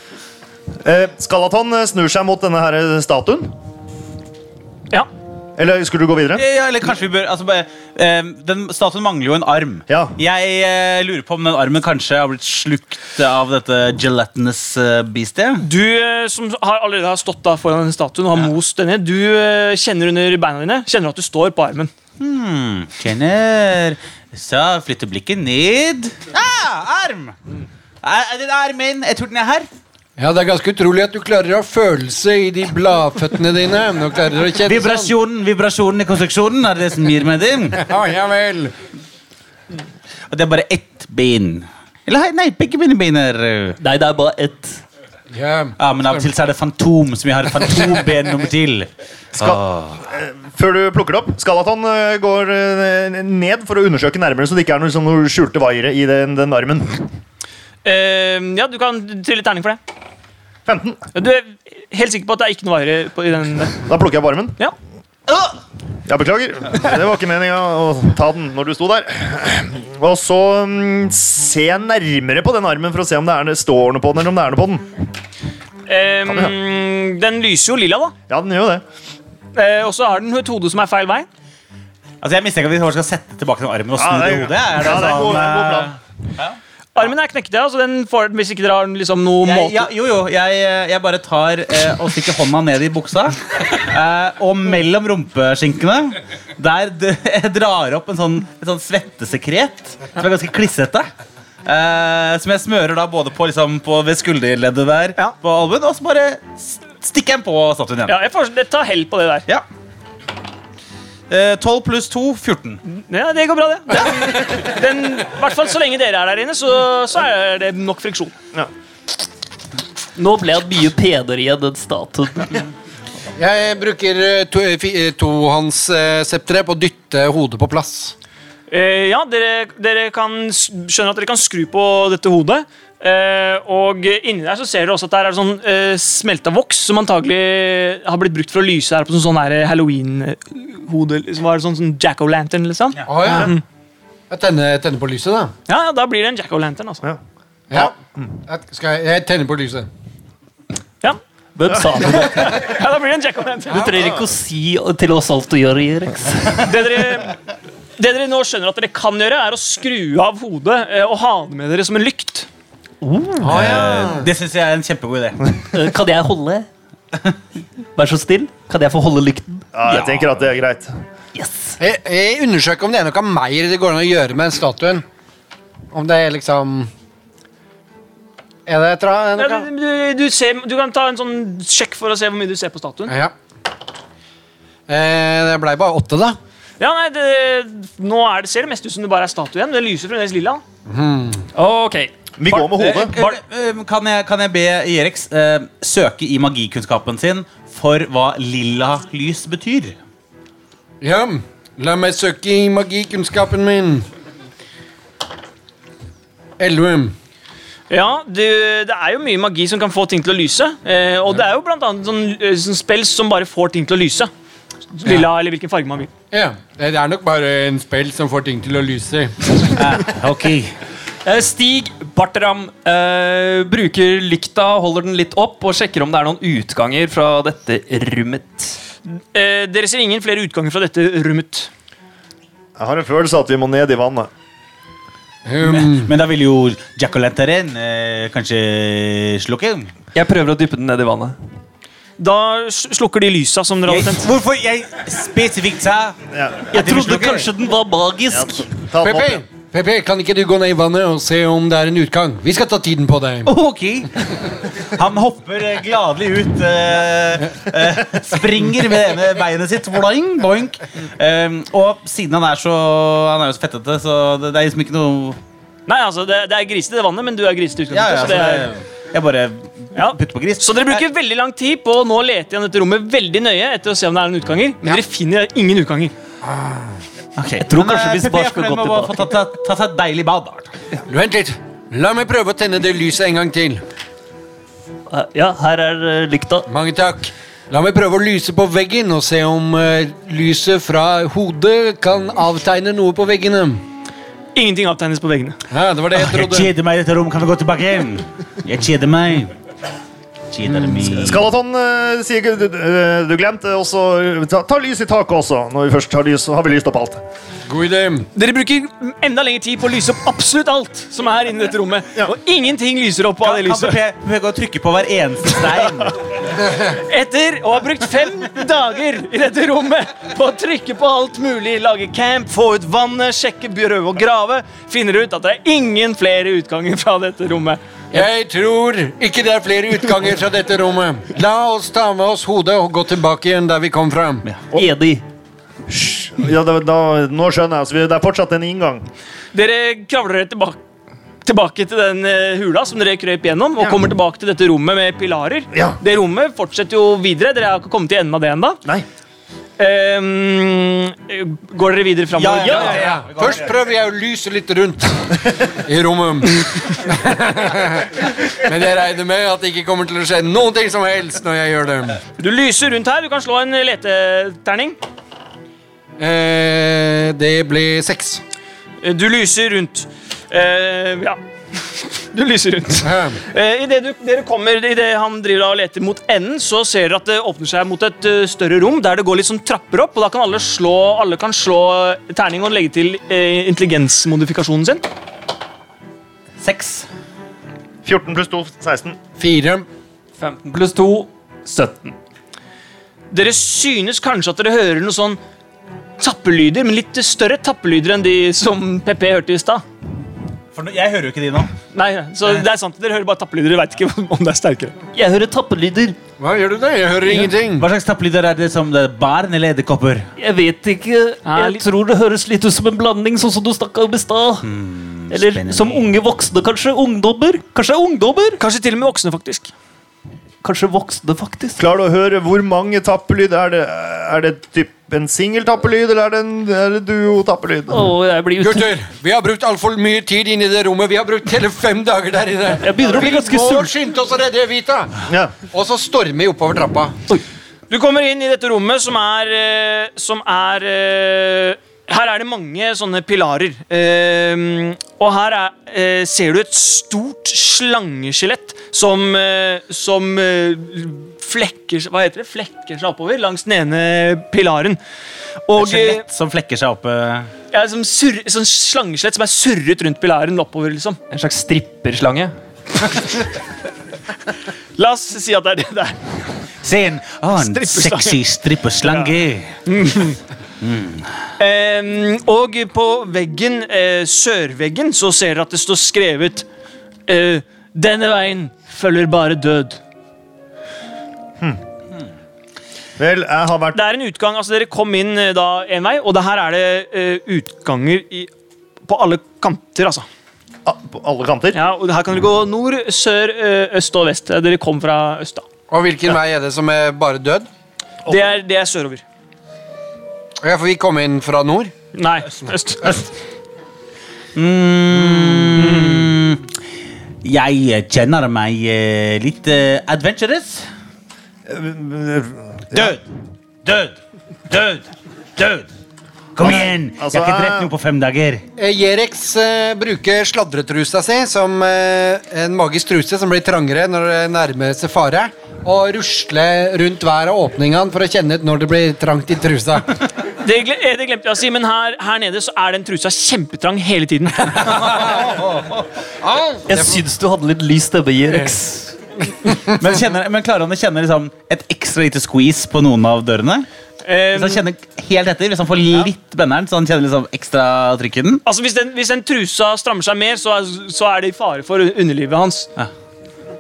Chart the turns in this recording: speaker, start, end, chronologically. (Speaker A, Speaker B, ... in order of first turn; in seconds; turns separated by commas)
Speaker A: 0.8-3.5, Speaker A: 5.6-6.4, Speaker B: 6.3-15.7, Speaker A: 9.9-10.1, Speaker C: 15.6-21.9, Speaker B: 22.2-27.4, Speaker B: 28.0-29.7, Speaker D: 30.2-35.1, Speaker B: 34.6-37.8, Speaker D: 37.7-38.7, Speaker B: 40.3-43.8, Speaker E: 43.8-44.8, Speaker D: 45.3-46.3, Speaker B: 45.8-49.9, Speaker A: 49.4-57.0, Speaker C: 57.8-59.8, Speaker A: 60.7-61.0, Speaker C: 61.1-63.8, Speaker A: 63.9-64.6, Speaker A: 66.1-74.9, Speaker C: 75.9-78.1, Speaker A: 76.3-76.5, Speaker A: 78.3-78.8, Speaker C: 79.5-81.3, Speaker B: 82.2-86.6, Speaker A: 84.0-86.0, Speaker C: 87.0-89.9, Speaker B: 89.4-101.1, Speaker B: 101.7-108.2, Speaker C: 108.1-109.5, Speaker B: 111.3-112.8, Speaker C: 112.9-118.3, Speaker E: 120.2-122.6, Speaker D: 123.4-128.2, Speaker C: 128.7-143.6, Speaker D: 143.1-143.5, Speaker D: 144.3-145.5, Speaker C: 145.7-147.0, Speaker A: 147.7-148.3, Speaker D: 148.5-149.9, Speaker E: 151.6-152.6, Speaker C: 152.0-153.9, Speaker E: 153.7-156.6, Speaker C: 156.6-157.3, Speaker C: 158.0-162.5, Speaker E: 163.0-163.5, Speaker D: 163.4-164.3, Speaker B: 163.5-165.4, Speaker E: 165.7-166.7, Speaker E: 168.0-169.7, Speaker A: 169.7-170.9, Speaker E: 171.3-171.8, Speaker D: 171.8-175.0, Speaker D: 175.9-176.9, Speaker D: 178.7-179.7, Speaker C: 179.4-183.1, Speaker D: 183.1-183.3, Speaker D: 184.9-186.4, Speaker C: 186.8-190.6, Speaker D: 190.9-191.4, Speaker F: 191.6-193.1, Speaker A: 192.4-193.2, Speaker B: 193.0-200.0, Speaker D: 201.0-204.1, Speaker D: 206.6-207.2, Speaker C: 207.9-214.3, Speaker C: 214.9-216.1, Speaker D: 216.3-219.6, Speaker B: 219.7-220.7, Speaker F: 221.2-228.8, Speaker C: 229.3-231.7, Speaker A: 232.8-234.3, Speaker D: 235.5-236.1, Speaker B: 235.6-239.9, Speaker F: 240.2-241.3, Speaker C: 242.2-244.3, Speaker B: 243.9-246.2, Speaker A: 246.3-246.7, Speaker E: 246.7-248.7, Speaker B: 246.7-247.5, Speaker A: 248.3-249.4, Speaker D: 249.0-253.5, Speaker B: 253.5-265.4, Speaker C: 265.9-268.7, Speaker B: 267.9-271.0, Speaker C: 269.9-276.1, Speaker B: 277.4-280.7, Speaker E: 277.6-279.2, Speaker D: 281.1-283.8, Speaker E: 285.1-286.7, Speaker D: 286.7-293.8, Speaker C: 294.6-295.6, Speaker D: 295.7-296.7, Speaker B: 296.1-299.5, Speaker B: 300.5-301.4, Speaker D: 300.7-301.0, Speaker A: 301.2-307.2, Speaker D: 307.7-308.3, Speaker C: 308.4-314.0, Speaker B: 313.4-316.1, Speaker C: 316.9-327.8, Speaker D: 328.1-334.4, Speaker E: 334.7-335.2, Speaker A: 335.9-339.1, Speaker C: 339.5-340.8, Speaker C: 341.4-348.8, Speaker A: 345.7-346.0, Speaker C: 349.8-353.1, Speaker B: 352.4-353.7, Speaker D: 352.9-362.2, Speaker C: 362.4-365.0, Speaker D: 366.2-368.4, Speaker C: 369.0-385.0, Speaker D: 373.0-373.4, Speaker B: 386.6-387.1, Speaker A: 388.1-389.2, Speaker D: 389.4-389.9, Speaker F: 390.4-392.1, Speaker C: 393.3-395.4, Speaker C: 396.2-399.8, Speaker B: 400.7-401.7, Speaker C: 401.9-404.9, Speaker E: 405.1-406.2, Speaker D: 406.4-407.9, Speaker B: 407.5-410.3, Speaker E: 410.4-414.7, Speaker C: 411.5-411.8, Speaker B: 414.6-416.1, Speaker E: 415.3-418.6, Speaker C: 418.6-419.7, Speaker E: 420.6-421.8, Speaker A: 421.8-428.1, Speaker E: 427.9-428.9, Speaker D: 428.6-435.1, Speaker E: 432.9-433.9, Speaker A: 435.3-435.5, Speaker D: 435.7-437.2, Speaker C: 437.9-455.0, Speaker C: 455.7-456.2, Speaker B: 455.8-457.5, Speaker C: 457.7-461.2, Speaker F: 461.3-462.5, Speaker C: 465.0-466.2, Speaker B: 466.8-469.8, Speaker C: 467.6-468.4, Speaker C: 469.0-469.3, Speaker C: 469.9-470.4, Speaker B: 470.8-471.3, Speaker C: 471.6-476.7, Speaker C: 477.3-480.0, Speaker A: 483.2-484.0, Speaker C: 483.9-488.5, Speaker C: 489.1-490.3, Speaker A: 490.9-491.8, Speaker C: 491.7-495.6, Speaker D: 495.9-497.7, Speaker C: 498.3-499.2, Speaker D: 500.6-501.9, Speaker C: 502.1-503.3, Speaker B: 504.6-506.6, Speaker C: 505.8-506.3, Speaker B: 507.4-510.9, Speaker A: 511.7-513.2, Speaker B: 512.9-513.2, Speaker B: 513.9-514.2, Speaker B: 514.7-515.9, Speaker B: 516.5-518.6, Speaker A: 516.6-517.9, Speaker D: 518.8-530.1, Speaker C: 530.6-535.2, Speaker B: 535.1-535.8, Speaker D: 536.4-537.2, Speaker E: 536.9-539.1, Speaker B: 539.9-543.9, Speaker C: 544.2-544.8, Speaker B: 544.5-548.6, Speaker C: 548.6-552.9